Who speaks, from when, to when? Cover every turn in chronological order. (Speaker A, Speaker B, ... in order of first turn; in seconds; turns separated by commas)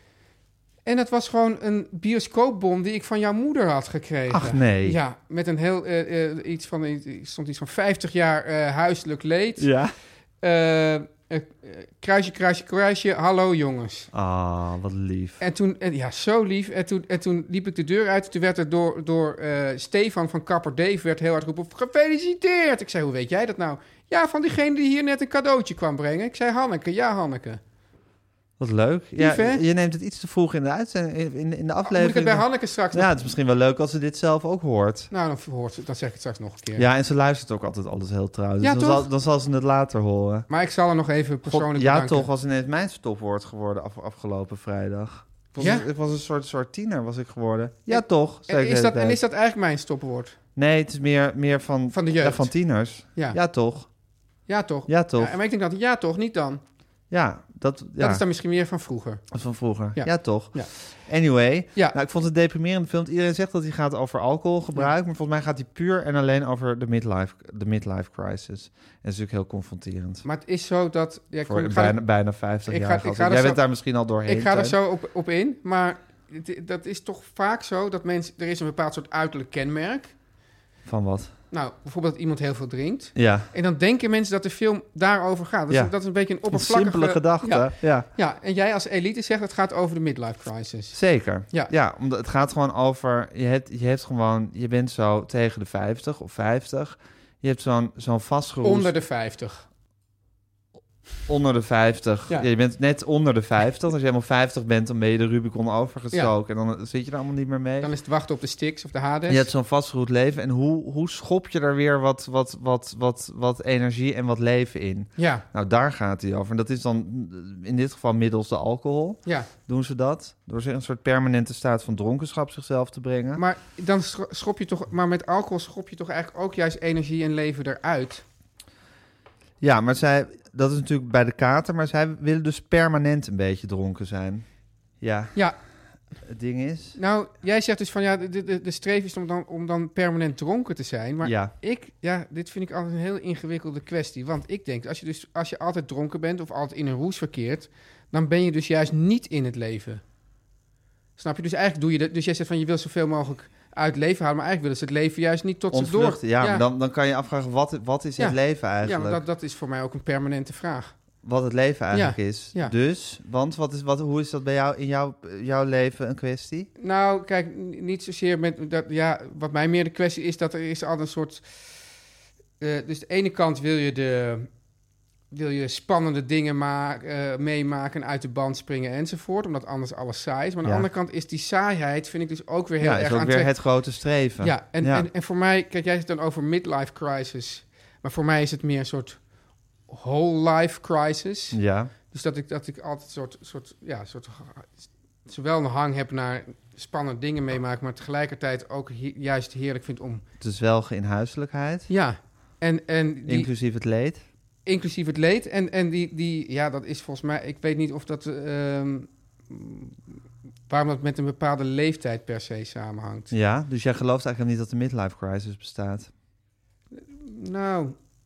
Speaker A: 0.8-9.7, Speaker B: 4.3-5.0, Speaker B: 9.6-9.9, Speaker A: 10.4-14.1, Speaker B: 14.1-15.4, Speaker A: 15.4-27.6, Speaker B: 28.6-35.1, Speaker A: 29.2-29.6, Speaker A: 31.8-33.1, Speaker A: 35.1-36.9, Speaker B: 36.8-40.5, Speaker A: 38.6-39.0, Speaker A: 40.5-42.3, Speaker B: 41.5-49.2, Speaker A: 45.5-45.9, Speaker A: 47.9-50.4, Speaker B: 50.5-53.9, Speaker A: 51.9-52.5, Speaker A: 54.5-56.6, Speaker B: 54.9-55.3, Speaker B: 57.1-58.2, Speaker A: 58.0-59.2, Speaker B: 59.3-70.2, Speaker A: 59.9-60.7, Speaker A: 70.2-72.0, Speaker B: 71.5-74.8, Speaker A: 72.7-73.6, Speaker A: 74.2-80.1, Speaker B: 80.8-81.3, Speaker A: 81.5-91.0, Speaker B: 83.2-83.5, Speaker B: 86.5-88.1, Speaker B: 90.9-98.9, Speaker A: 98.6-99.6, Speaker B: 101.3-107.9, Speaker A: 107.8-109.5, Speaker B: 109.3-123.4, Speaker A: 115.2-115.4, Speaker A: 123.3-128.2, Speaker B: 129.6-134.4, Speaker B: 135.0-135.3, Speaker B: 136.2-137.0, Speaker A: 137.0-150.0, Speaker B: 141.2-141.5, Speaker A: 151.2-156.6, Speaker B: 155.7-159.2, Speaker A: 158.2-160.9, Speaker B: 161.2-166.7, Speaker A: 161.9-162.7, Speaker A: 166.8-171.8, Speaker A: 172.6-174.5, Speaker A: 175.3-183.5, Speaker B: 182.8-185.1, Speaker A: 184.4-189.2, Speaker A: 189.9-191.6, Speaker B: 191.5-191.9, Speaker A: 192.1-200.2, Speaker B: 200.4-201.9, Speaker A: 201.9-203.5, Speaker B: 203.3-204.2, Speaker A: 204.6-210.0, Speaker A: 210.7-213.3, Speaker B: 213.3-216.1, Speaker A: 216.9-218.0